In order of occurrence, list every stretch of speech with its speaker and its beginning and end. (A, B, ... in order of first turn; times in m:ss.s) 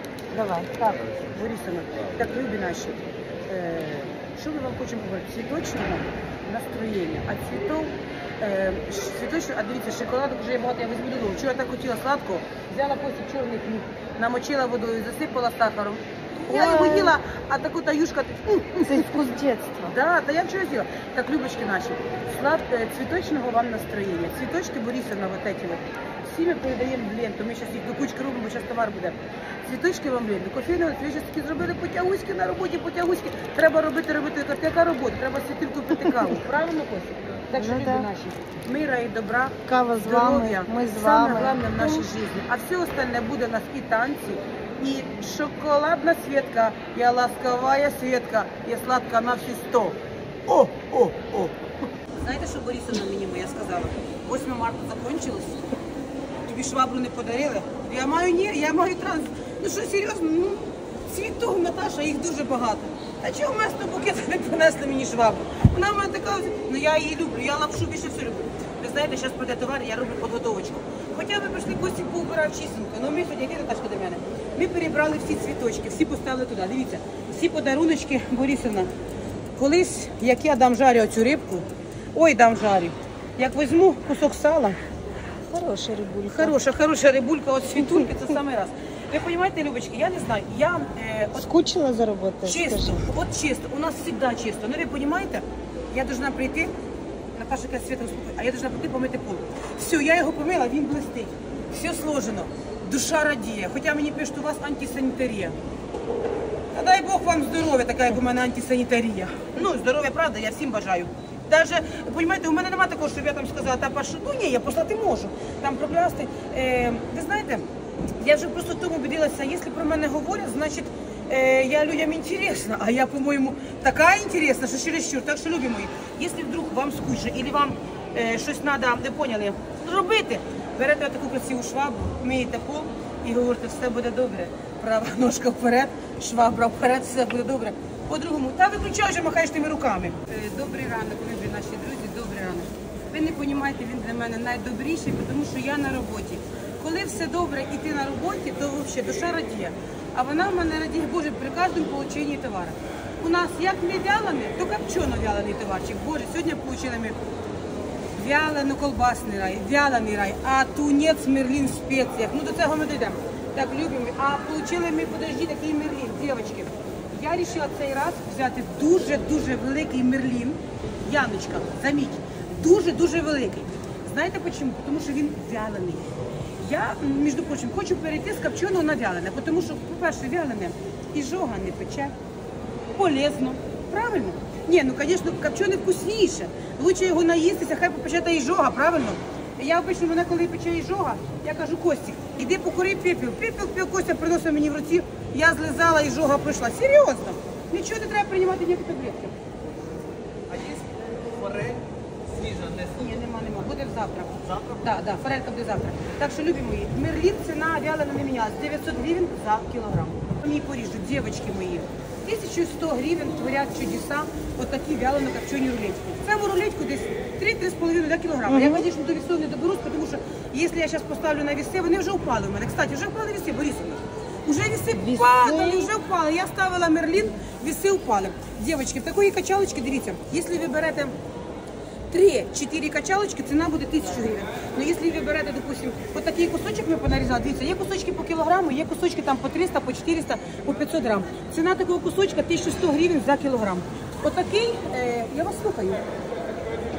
0:00.3-0:00.7 A
0:00.7-0:19.2 B
0:16.5-0:17.2 A
0:18.8-0:19.9 A
0:19.9-0:51.5 B
0:36.0-0:36.3 A
0:37.5-0:38.1 A
0:39.7-0:42.1 A
0:52.2-0:55.6 B
0:56.5-1:18.9 B
1:19.6-1:24.8 B
1:25.5-1:26.6 A
1:26.3-1:31.4 B
1:27.8-1:28.1 A
1:31.4-1:33.0 A
1:32.4-1:36.7 B
1:37.4-1:45.6 B
1:46.7-1:57.6 B
1:58.2-2:37.2 B
2:38.2-2:56.1 B
2:56.6-3:02.1 B
3:03.0-3:19.3 B
3:20.5-3:22.8 C
3:22.8-3:51.1 B
3:38.5-3:38.8 A
3:44.9-3:45.9 A
3:52.1-4:06.0 B